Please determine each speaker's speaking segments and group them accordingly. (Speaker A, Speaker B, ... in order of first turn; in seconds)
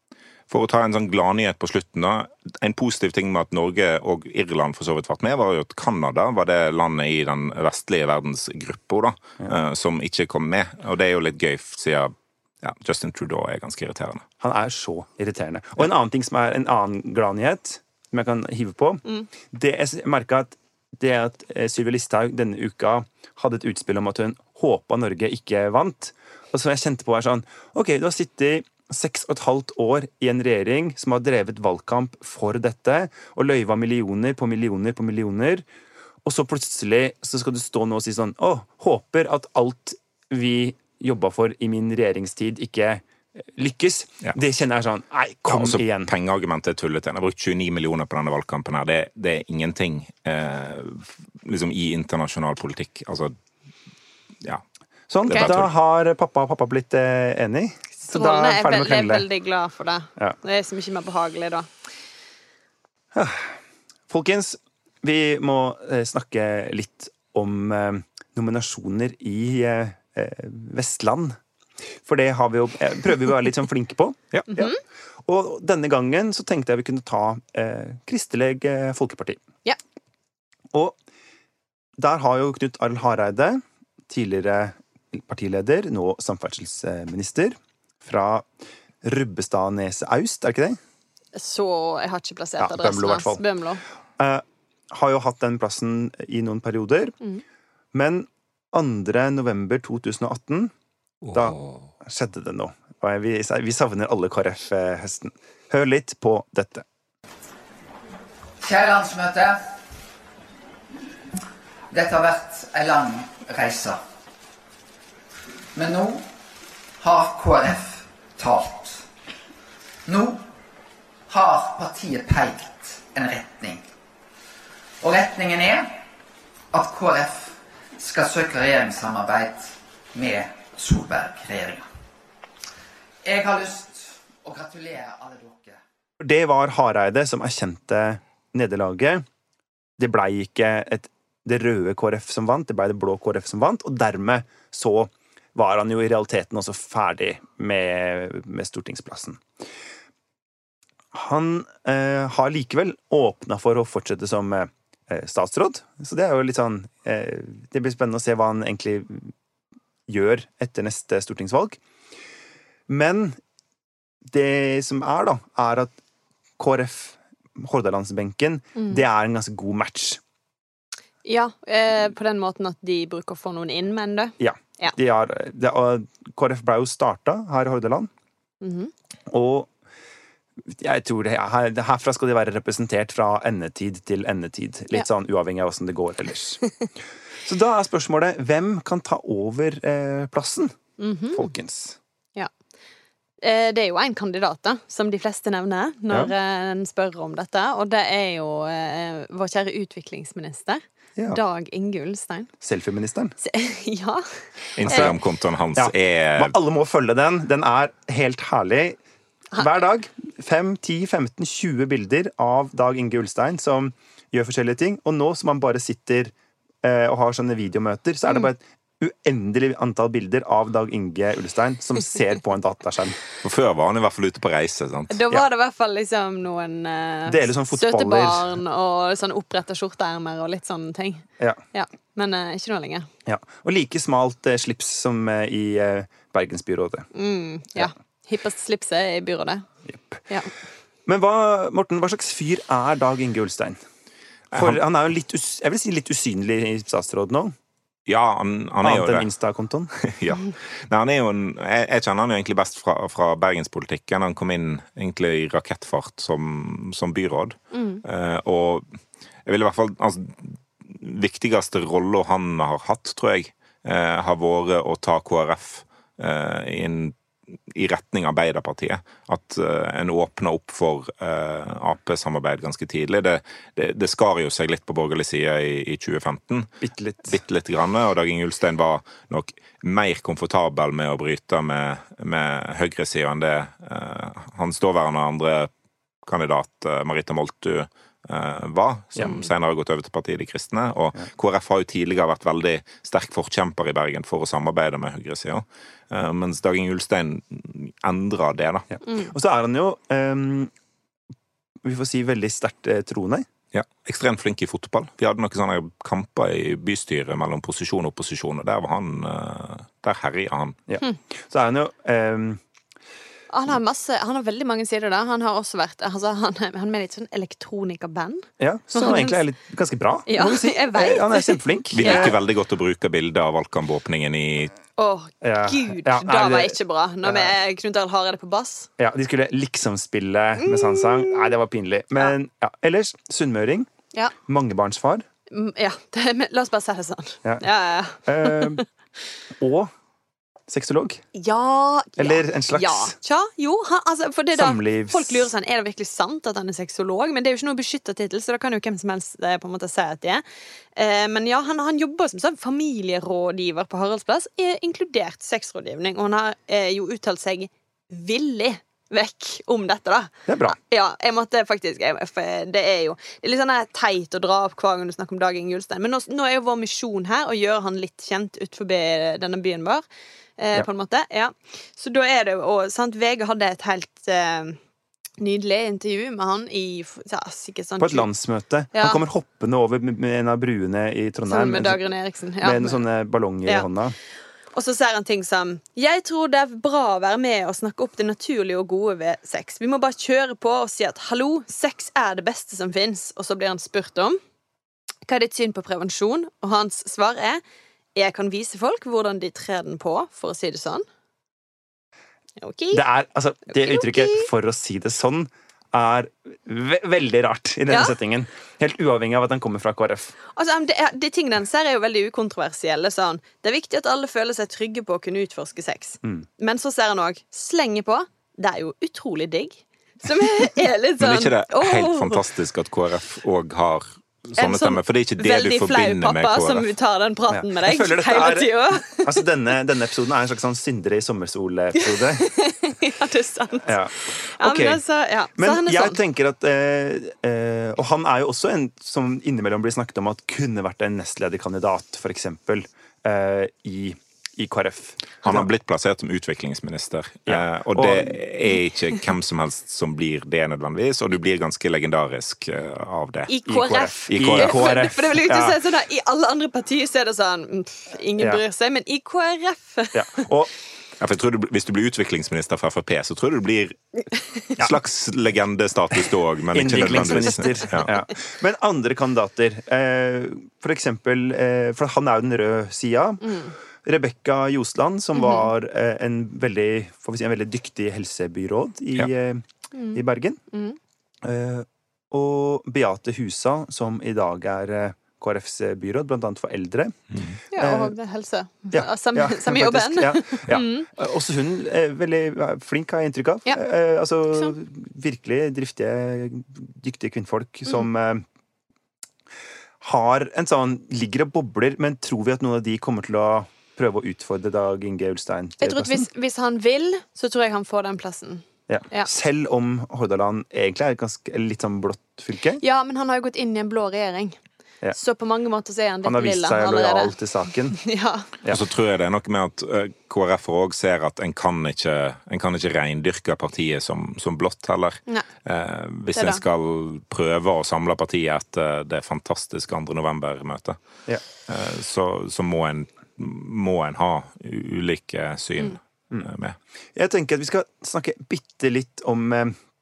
Speaker A: 0.5-14.2, 45.5-53.3, 55.3-55.7, 204.8-206.5, 223.4-225.1, 244.5-244.8, 248.1-249.3, 250.0-258.8, 259.5-267.1, 267.7-276.7, 277.2-285.7, 286.2-298.9, 303.7-310.8, 321.9-324.7, 421.2-426.9, 445.4-453.5, 454.3-454.9, 461.2-464.0, 464.8-468.1, 518.7-531.0, 531.7-536.8
Speaker B: 14.4-35.6, 36.2-46.1, 55.1-59.3, 63.1-63.6, 64.1-71.4, 72.0-74.7, 75.2-79.4, 80.7-81.0, 82.0-88.5, 89.0-90.8, 92.6-93.4, 94.2-97.2, 97.9-100.7, 101.3-106.8, 136.2-139.2, 140.0-149.4, 151.1-159.3, 160.1-161.8, 162.9-163.4, 164.3-165.9, 166.6-170.2, 174.4-178.1, 179.3-179.7, 180.7-186.6, 187.4-190.7, 191.3-192.0, 202.6-203.3, 204.8-205.2, 205.8-209.0, 209.6-223.2, 227.3-228.5, 233.2-237.1, 239.8-240.2, 241.1-243.8, 244.5-247.5, 248.8-249.9, 276.8-277.4, 298.9-300.7, 301.8-303.5, 310.9-312.6, 318.6-322.4, 325.4-327.5, 329.0-333.9, 334.4-335.2, 338.2-338.8, 339.6-339.9, 340.7-341.2, 342.2-343.1, 344.5-345.5, 360.5-360.8, 378.0-382.0, 382.6-384.1, 402.9-410.3, 427.5-432.5, 433.8-435.0, 435.5-445.7, 447.5-448.4, 453.6-455.8, 460.1-460.7, 466.7-480.6, 481.4-487.2, 487.8-488.1, 488.9-498.4, 500.0-506.3, 508.9-512.8, 516.2-518.0, 537.1-539.8
Speaker C: 58.1-61.7, 74.5-74.8, 91.3-93.8, 168.8-169.0, 171.2-174.9, 178.6-178.9, 191.0-191.5, 193.4-202.5, 203.4-204.2, 225.1-233.1, 237.1-239.7, 257.7-258.0, 313.5-319.4, 320.3-322.3, 325.0-328.9, 330.6-331.5, 335.5-338.8, 341.3-350.4, 350.9-370.0, 370.6-374.8, 375.4-378.3, 378.9-379.2, 381.5-383.0, 384.7-394.4, 395.2-397.6, 398.1-401.0, 402.6-403.0, 403.7-404.5, 407.9-408.1, 410.5-422.4, 424.6-429.4, 432.0-436.2, 453.5-460.4, 473.4-473.7, 475.3-475.7, 479.9-481.0, 487.7-491.1, 505.8-509.3, 512.8-514.6, 515.1-517.3, 518.0-518.5, 526.3-526.6
Speaker D: 108.6-109.6, 111.9-114.0, 115.7-116.3, 117.0-119.0, 120.1-120.4, 121.3-123.8, 125.0-126.0, 126.7-131.9, 133.2-135.8